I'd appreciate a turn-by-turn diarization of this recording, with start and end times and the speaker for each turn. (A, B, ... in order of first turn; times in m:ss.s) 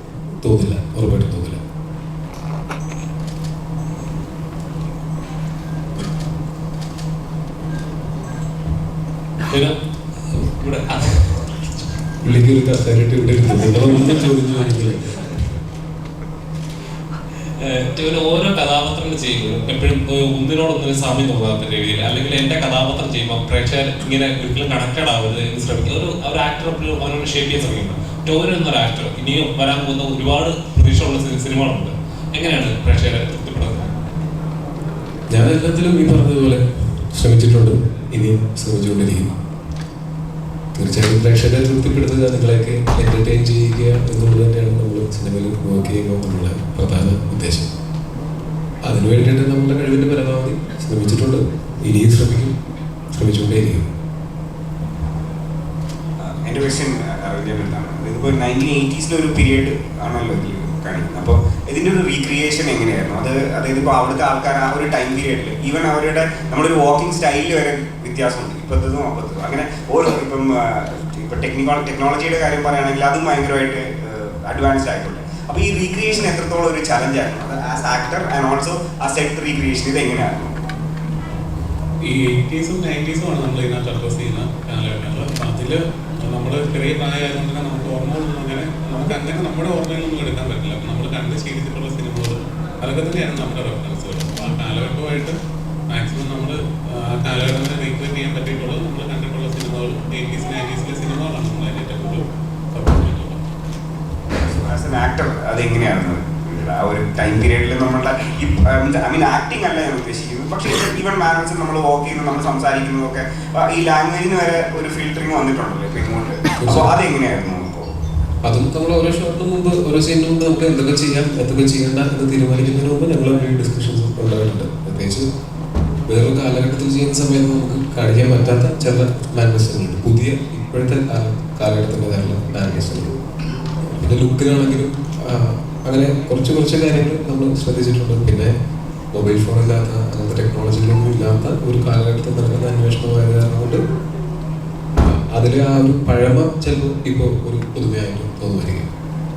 0:00.4-0:01.6 A
0:09.5-0:09.8 B
0:10.3-0:11.5 B
0:12.2-0:15.3 A
0:17.6-0:33.9 B
0:35.3-0:39.3 A
0:40.7-0:47.7 A
0:48.8-0:52.5 A
0:53.1-0:53.8 A
0:56.2-1:20.5 C
1:22.0-1:35.3 D
1:35.9-1:43.4 D
1:44.4-1:57.9 C
1:56.6-1:56.9 A
1:58.4-2:05.2 A
2:06.1-2:13.1 A
2:13.8-2:18.5 A
2:19.1-2:23.8 A
2:25.0-2:28.9 A